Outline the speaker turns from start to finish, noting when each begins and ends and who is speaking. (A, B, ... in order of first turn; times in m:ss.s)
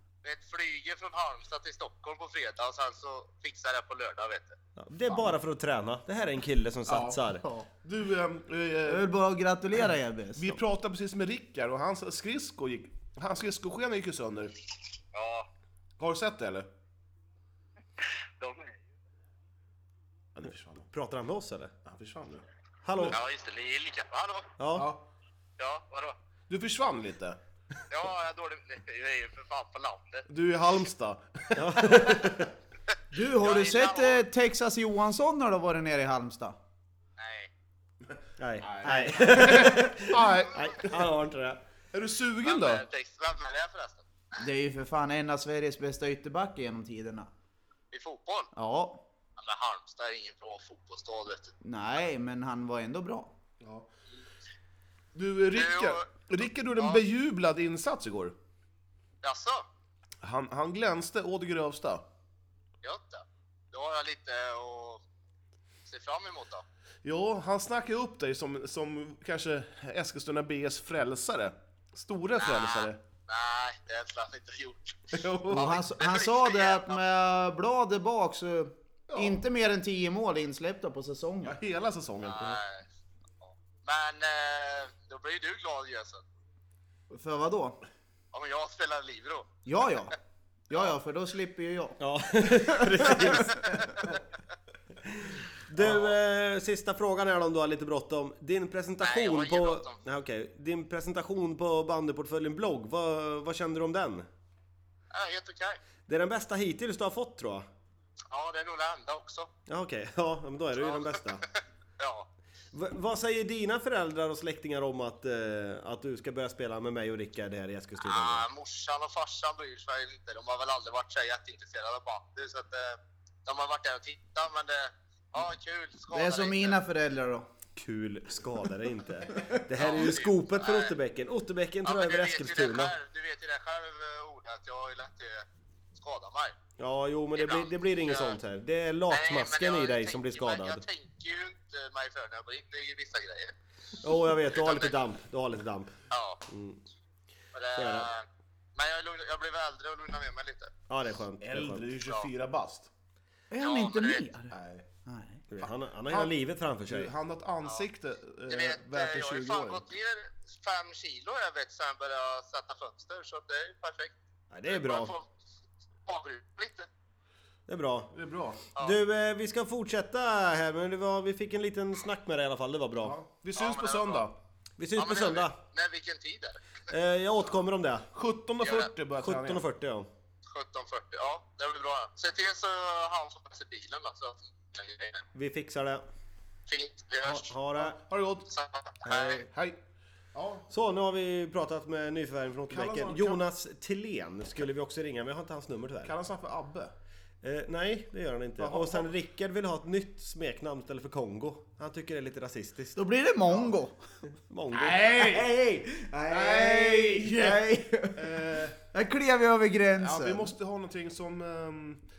0:00.2-0:04.6 A
0:04.8-0:07.4 B
0:06.9-0:07.2 C
0:07.4-0:07.7 D
0:07.8-0:09.1 C
0:08.8-0:10.6 D
0:10.4-0:14.5 C
0:15.1-0:15.5 A
0:16.0-0:16.7 C
0:18.4-0:18.7 A
0:20.3-0:20.9 C
0:20.9-0:21.7 B
0:21.8-0:23.2 C
0:22.8-0:23.2 B
0:23.1-0:24.5 A
0:24.6-0:24.9 B
0:24.7-0:25.0 C
0:25.6-0:26.1 A
0:26.5-0:27.4 C
0:27.9-0:30.2 A
0:30.3-0:32.2 C
0:31.5-0:32.5 B
0:33.1-0:36.6 D
0:33.3-0:34.2 A
0:37.2-0:37.5 A
0:38.4-0:41.6 B
0:38.6-0:40.9 C
0:38.8-0:39.9 D
0:41.9-0:42.8 C
0:42.4-0:44.0 A
0:44.4-0:47.3 D
0:47.9-0:48.5 A
0:48.5-0:49.0 D
0:49.4-0:51.5 A
0:51.6-0:53.3 D
0:53.6-0:53.9 C
0:55.1-0:58.3 C
0:55.5-0:56.1 A
0:56.8-0:57.0 A
0:59.2-0:59.6 A
1:00.2-1:02.0 C
1:02.8-1:05.0 A
1:05.9-1:06.6 A
1:07.0-1:13.0 C
1:12.4-1:17.0 A
1:15.1-1:15.8 C
1:15.5-1:21.6 D
1:19.1-1:19.4 C
1:21.4-1:22.6 C
1:22.2-1:22.8 A
1:23.4-1:26.2 A
1:27.1-1:27.8 D
1:28.3-1:29.5 A
1:29.6-1:30.1 D
1:30.7-1:32.0 D
1:32.0-1:33.7 B
1:32.5-1:33.3 D
1:35.0-1:44.3 B
1:39.0-1:39.9 A
1:45.1-1:45.8 A
1:46.1-1:47.6 B
1:48.3-1:49.5 A
1:49.7-1:51.4 B
1:50.8-1:51.1 A
1:52.0-1:52.3 A
1:52.7-1:58.5 B
1:58.0-2:06.8 A
2:06.1-2:07.4 D
2:07.8-2:12.9 B
2:09.7-2:10.9 A
2:11.8-2:16.6 A
2:16.8-2:20.8 B
2:17.3-2:18.4 A
2:19.1-2:23.5 A
2:24.0-2:25.9 B
2:24.5-2:25.0 A
2:26.1-2:26.4 A
2:26.5-2:26.8 B
2:27.5-2:28.2 A
2:27.8-2:28.1 B
2:28.8-2:30.7 A
2:30.9-2:32.0 B
2:31.4-2:32.9 C
2:32.0-2:32.3 A
2:33.5-2:34.5 D
2:33.6-2:34.3 A
2:34.5-2:34.8 C
2:35.0-2:35.4 D
2:35.5-2:37.1 B
2:35.6-2:39.8 C
2:38.5-2:44.1 A
2:44.5-2:45.1 B
2:44.7-2:45.3 A
2:46.0-2:46.9 A
2:47.7-2:48.1 B
2:48.1-2:48.6 C
2:48.8-2:53.2 B
2:53.0-2:54.3 C
2:53.6-2:54.3 A
2:54.8-2:55.6 B
2:55.0-2:56.6 A
2:56.9-2:58.1 B
2:58.1-2:59.6 C
2:58.6-2:58.9 A
2:59.2-3:00.1 B
3:00.4-3:05.2 A
3:05.3-3:06.0 B
3:06.7-3:07.5 A
3:07.2-3:08.0 B
3:07.8-3:08.5 C
3:08.5-3:09.4 A
3:09.0-3:09.5 B
3:09.5-3:09.8 C
3:10.3-3:10.7 C
3:10.7-3:16.1 B
3:12.7-3:13.4 C
3:16.0-3:16.9 C
3:17.4-3:23.0 B
3:18.6-3:19.1 C
3:23.0-3:24.0 D
3:24.3-3:25.6 B
3:24.7-3:25.6 C
3:25.6-3:30.5 D
3:26.3-3:28.8 C
3:30.0-3:32.0 C